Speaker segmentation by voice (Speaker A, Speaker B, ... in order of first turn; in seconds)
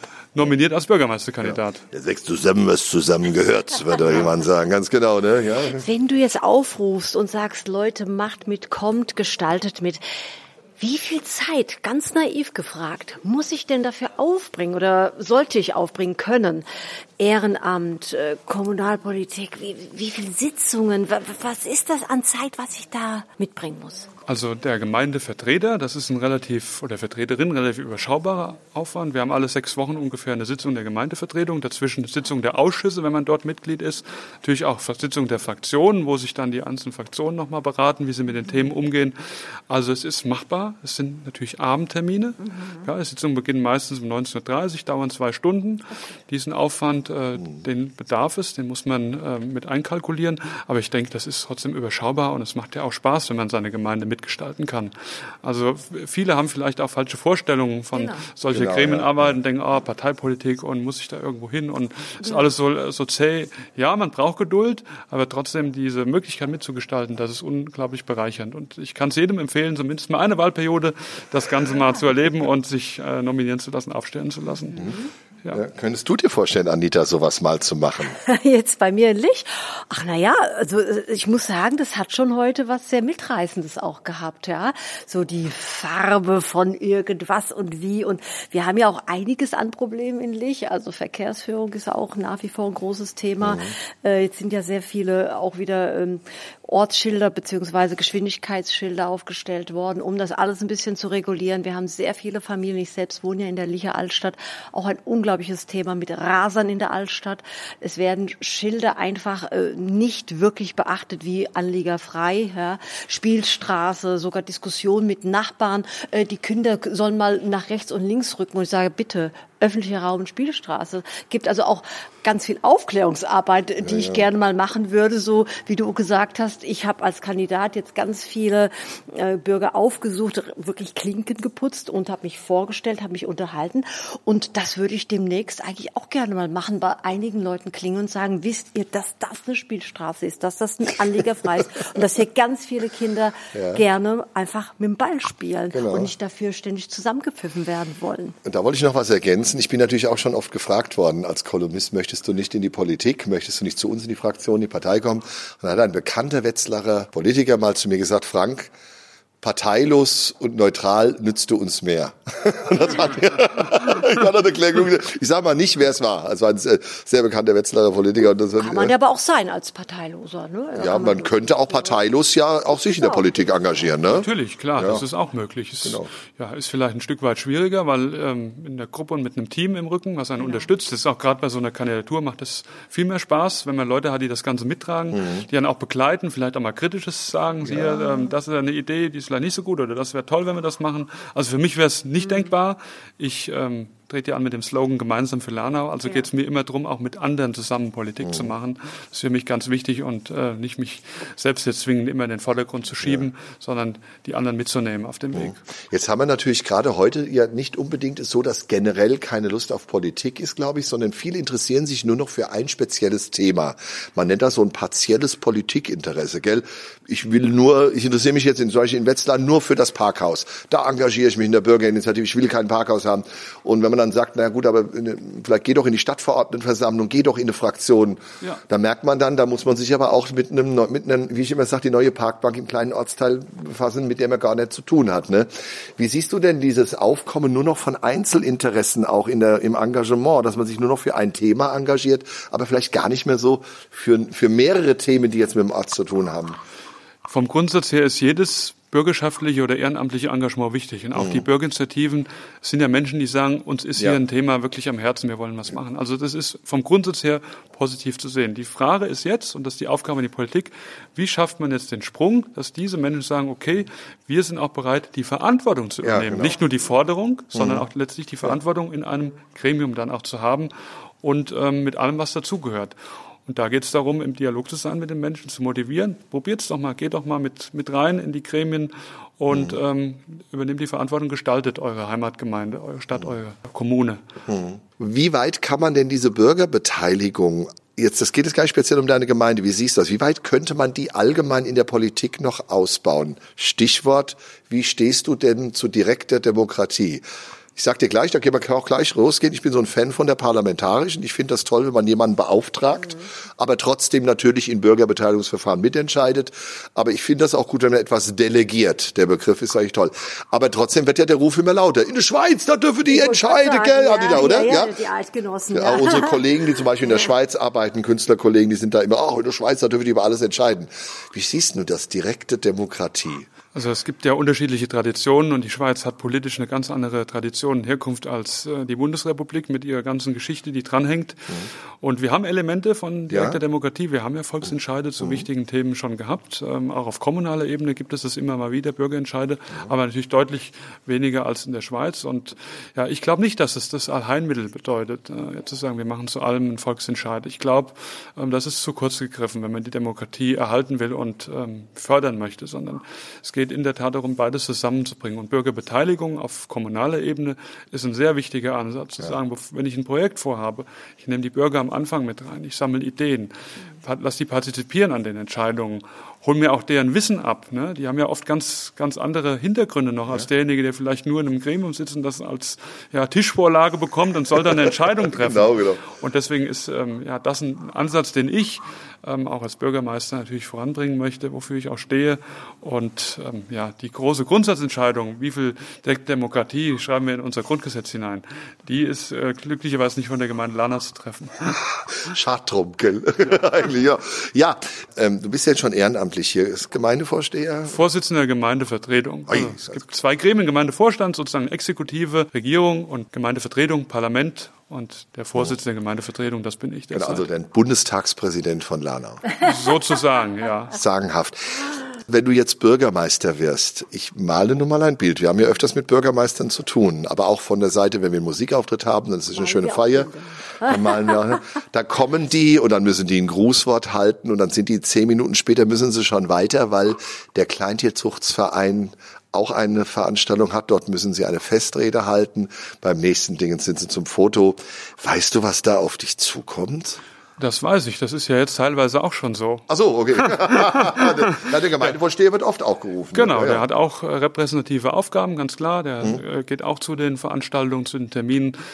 Speaker A: 0.3-1.8, 24.3-75.6, 174.1-205.6, 247.3-270.7, 271.2-284.2, 323.7-391.8, 397.9-407.5, 409.6-411.0, 437.6-442.2, 443.3-448.8
Speaker B: 1.4-5.8, 58.5-59.4, 75.5-78.2, 93.4-93.7, 123.8-124.2, 143.5-143.8, 145.7-146.1, 148.4-158.7, 159.4-168.9, 170.7-175.0, 175.8-176.1, 185.1-185.5, 187.6-188.0, 198.2-198.5, 203.0-203.3, 205.3-246.6, 251.1-251.5, 266.0-266.6, 267.5-267.9, 279.5-279.8, 284.5-297.2, 297.8-314.9, 315.7-323.5, 333.3-333.6, 335.2-335.5, 375.3-376.1, 392.2-398.0, 399.5-400.1, 407.1-409.5, 410.9-437.2, 439.9-443.8
Speaker C: 5.7-10.0, 10.8-16.6, 17.2-24.1, 42.4-42.9, 57.9-58.2, 62.2-62.5, 78.0-148.3, 168.6-172.1, 172.7-173.5, 180.4-180.7, 188.0-188.3, 192.2-192.5, 313.1-316.5, 419.5-421.4